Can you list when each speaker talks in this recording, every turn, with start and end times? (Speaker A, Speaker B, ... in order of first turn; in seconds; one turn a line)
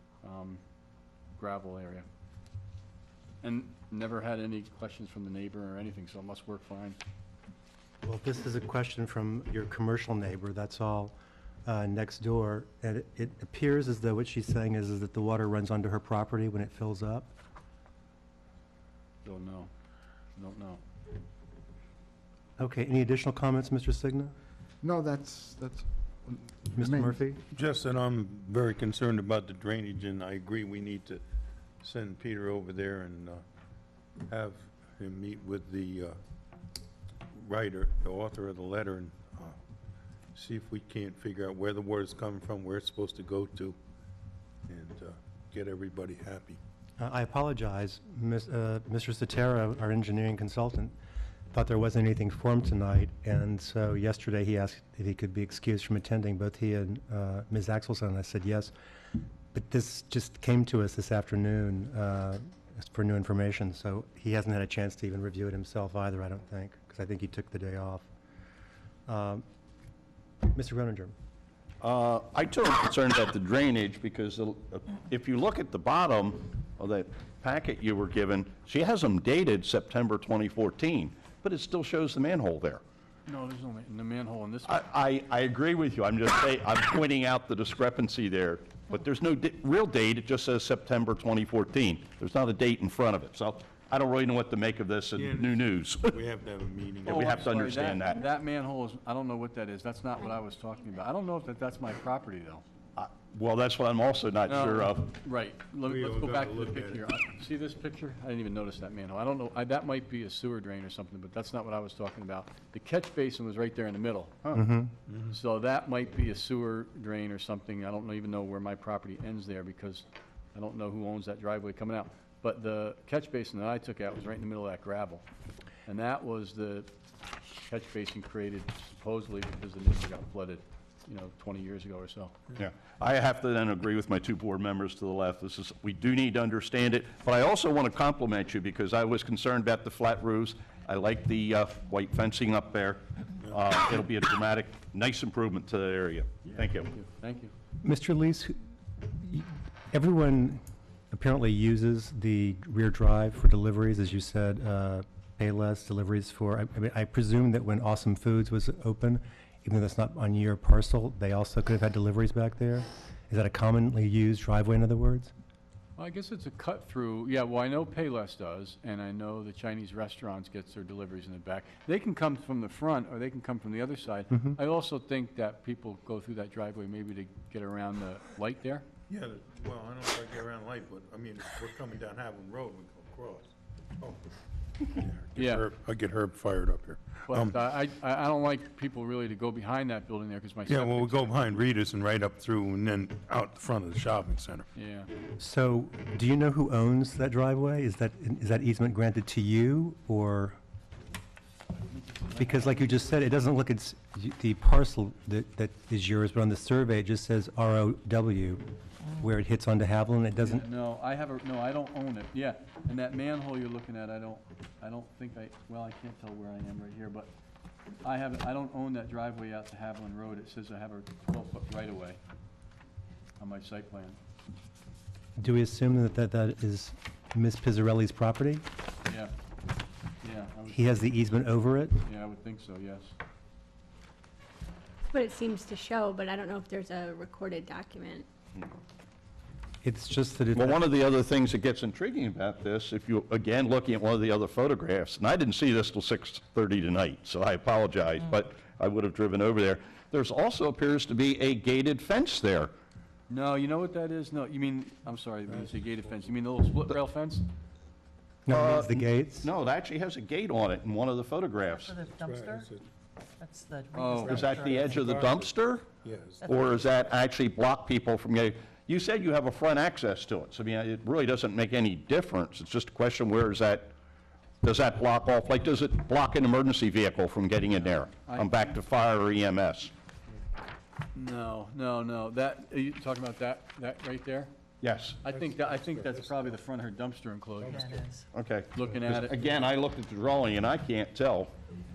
Speaker A: 0.2-0.6
Speaker A: 1.4-2.1
Speaker A: 3.4-7.0
Speaker B: 8.0-11.2
Speaker B: 11.7-17.3
Speaker A: 19.2-19.7
Speaker A: 20.4-20.8
Speaker B: 22.6-24.3
Speaker C: 24.8-27.4
Speaker B: 26.8-27.4
Speaker D: 27.5-31.2
Speaker D: 31.8-33.4
Speaker D: 34.3-36.2
Speaker D: 37.3-39.6
Speaker D: 40.3-43.8
Speaker D: 44.7-46.6
Speaker B: 47.0-51.0
Speaker B: 51.5-58.7
Speaker B: 59.5-68.1
Speaker B: 69.1-69.4
Speaker B: 70.5-71.1
Speaker E: 71.8-82.8
Speaker A: 83.3-84.8
Speaker E: 84.7-96.2
Speaker D: 95.2-97.9
Speaker E: 97.1-98.2
Speaker A: 97.1-102.6
Speaker E: 103.0-105.1
Speaker A: 104.5-114.4
Speaker D: 105.8-107.1
Speaker B: 114.5-114.9
Speaker D: 115.1-115.3
Speaker A: 115.3-125.2
Speaker A: 125.9-126.9
Speaker A: 127.7-132.3
Speaker E: 132.6-146.9
Speaker A: 146.9-147.5
Speaker B: 147.8-165.3
Speaker A: 166.0-178.8
Speaker B: 174.3-174.6
Speaker D: 179.1-184.2
Speaker D: 184.9-187.6
Speaker A: 185.4-185.7
Speaker A: 187.3-191.5
Speaker D: 190.7-194.7
Speaker A: 194.8-195.1
Speaker B: 195.4-200.6
Speaker A: 202.1-203.0
Speaker B: 202.4-208.6
Speaker B: 209.2-210.7
Speaker A: 210.4-217.3
Speaker A: 218.0-222.2
Speaker A: 223.4-224.2
Speaker B: 225.4-228.7
Speaker A: 229.1-229.3
Speaker A: 230.2-231.1
Speaker B: 230.7-232.0
Speaker A: 232.0-233.1
Speaker F: 235.1-238.3
Speaker B: 239.8-240.9
Speaker E: 240.5-252.7
Speaker A: 253.3-257.5
Speaker B: 258.5-259.5
Speaker E: 258.5-262.1
Speaker G: 261.8-262.7
Speaker D: 262.1-262.9
Speaker G: 263.4-265.1
Speaker A: 263.9-264.6
Speaker E: 264.2-265.9
Speaker D: 264.6-265.5
Speaker D: 266.0-266.6
Speaker G: 266.4-266.7
Speaker E: 266.4-273.9
Speaker E: 274.6-279.9
Speaker A: 277.7-278.7
Speaker A: 281.1-284.5
Speaker E: 284.8-285.2
Speaker A: 285.2-288.0
Speaker D: 285.6-286.4
Speaker G: 287.7-288.3
Speaker E: 288.3-291.5
Speaker A: 288.7-289.6